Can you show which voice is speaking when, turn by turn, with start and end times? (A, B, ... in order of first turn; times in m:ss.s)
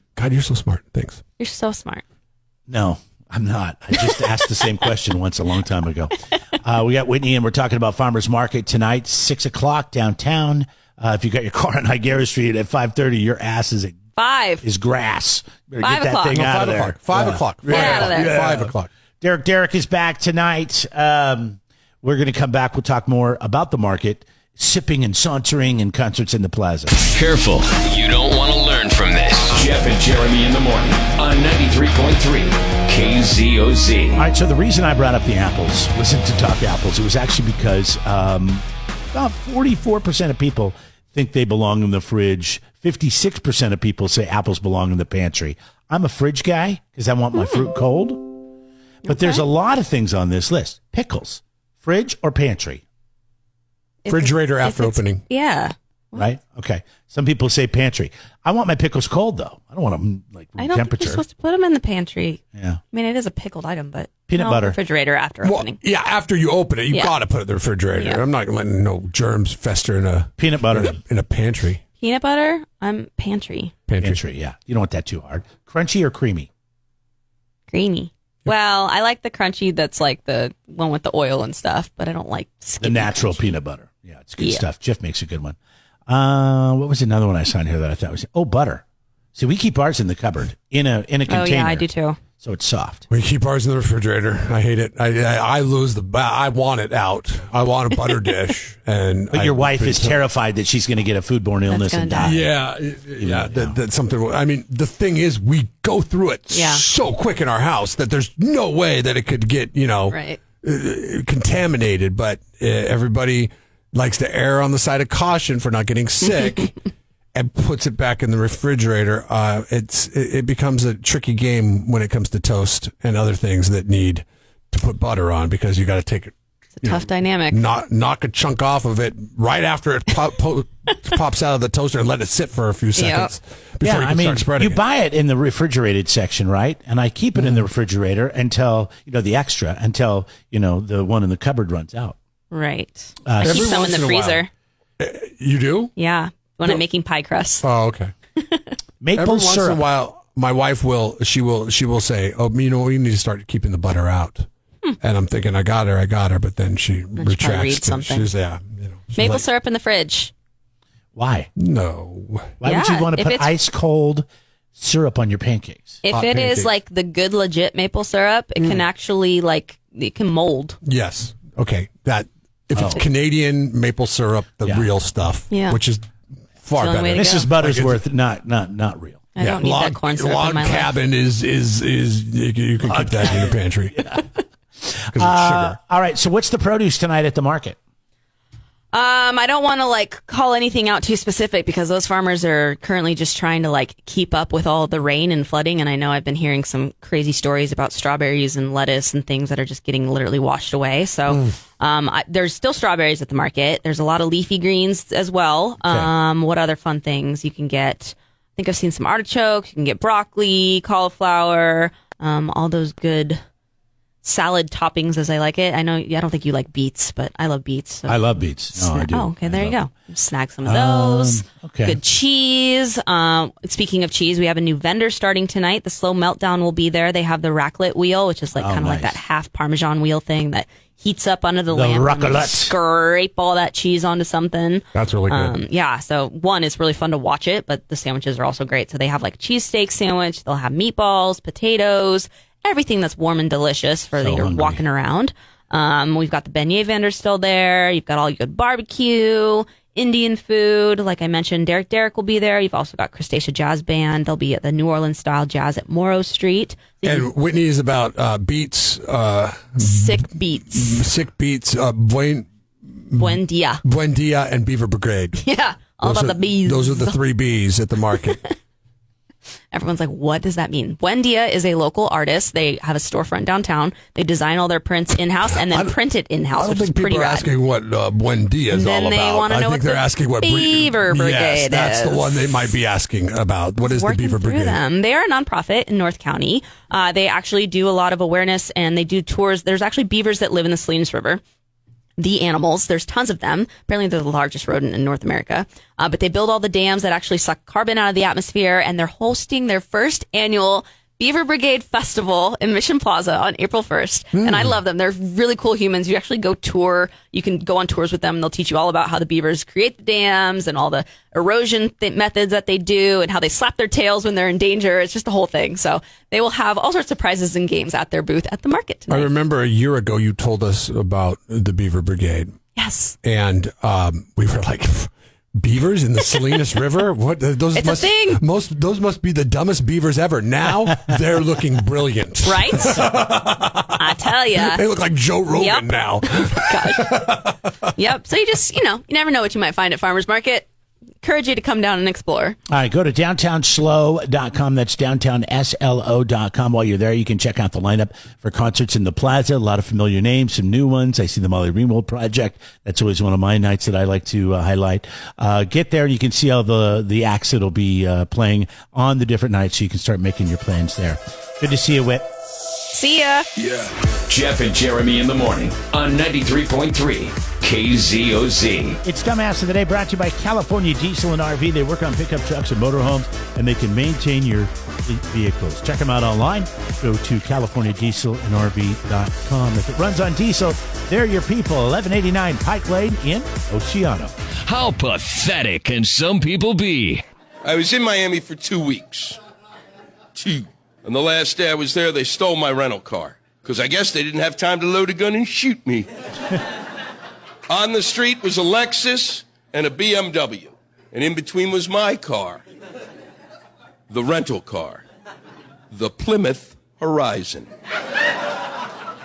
0:00.2-0:01.2 A
0:01.4-0:02.0 B
0:02.7-0:14.0 C
0:14.2-0:14.6 B
0:14.6-0:26.9 C
0:15.8-0:16.4 B
0:16.3-0:18.9 A
0:17.7-0:18.4 B
0:27.0-0:34.2 D
0:34.2-0:48.3 C
0:47.4-0:47.6 B
0:49.0-0:49.4 B
0:49.0-0:52.8 C
0:54.0-0:56.2 B
0:54.1-0:55.2 A
0:56.1-1:01.2 C
1:00.6-1:05.8 B
1:02.6-1:02.8 C
1:04.3-1:04.8 C
1:05.4-1:11.8 A
1:07.9-1:08.2 B
1:10.4-1:11.0 C
1:12.0-1:13.7 B
1:13.9-1:14.2 A
1:14.0-1:16.5 C
1:17.7-1:23.5 B
1:22.8-1:25.6 C
1:26.1-1:28.8 C
1:29.3-1:33.0 C
1:31.3-1:32.2 B
1:33.1-1:40.2 A
1:39.3-1:42.5 C
1:41.7-1:42.4 B
1:42.2-1:56.7 A
1:43.1-1:43.8 C
1:46.5-1:46.8 B
1:50.1-1:50.4 B
1:57.3-2:14.8 A
2:06.8-2:07.6 B
2:13.0-2:13.3 B
2:13.8-2:22.2 C
2:17.3-2:17.6 A
2:22.5-2:24.5 B
2:23.2-2:23.8 C
2:23.4-2:24.4 A
2:25.0-2:25.9 A
2:26.0-2:27.6 B
2:27.6-2:28.1 A
2:29.0-2:29.8 C
2:29.2-2:34.5 A
2:35.0-2:39.4 A
2:37.2-2:38.3 B
2:39.1-2:40.3 B
2:41.1-2:41.5 C
2:41.6-2:42.6 A
2:42.6-2:46.0 C
2:42.6-2:43.5 B
2:46.0-2:50.8 B
2:46.1-2:46.7 A
2:50.8-2:56.1 A
2:52.7-2:53.0 C
2:55.5-2:55.8 B
2:56.6-2:58.0 A
2:56.8-2:57.5 B
2:57.1-2:59.2 C
2:59.4-3:00.9 B
2:59.4-3:04.2 A
3:02.8-3:04.2 C
3:04.8-3:07.8 C
3:05.1-3:05.8 A
3:08.9-3:33.4 B
3:34.2-4:17.3 B
3:38.1-3:39.8 C
3:40.6-3:42.0 C
3:48.6-3:49.2 C
3:51.7-3:52.7 C
3:54.9-3:55.6 A
4:04.2-4:04.8 C
4:17.0-4:25.4 A
4:19.8-4:21.0 B
4:23.2-4:23.8 B
4:25.4-4:27.2 B
4:26.0-4:28.4 A
4:29.7-4:37.5 B
4:35.5-4:36.0 A
4:36.5-4:44.8 A
4:38.7-4:42.4 B
4:43.9-4:51.4 B
4:52.2-5:19.3 B
5:04.3-5:04.8 A
5:19.1-5:22.6 A
5:22.8-5:23.2 B
5:23.2-5:37.9 A
5:27.7-5:28.4 B
5:32.4-5:33.1 B
5:34.0-5:34.8 B
5:35.5-5:37.4 B
5:37.9-5:40.7 B
5:41.2-5:42.6 B
5:42.7-6:02.2 C
6:02.9-6:03.4 B
6:04.3-6:09.0 D
6:09.0-6:24.3 C
6:24.6-6:27.2 D
6:27.6-6:29.4 E
6:30.3-6:36.1 E
6:37.7-6:42.6 E
6:44.1-6:45.0 E
6:45.9-6:47.7 E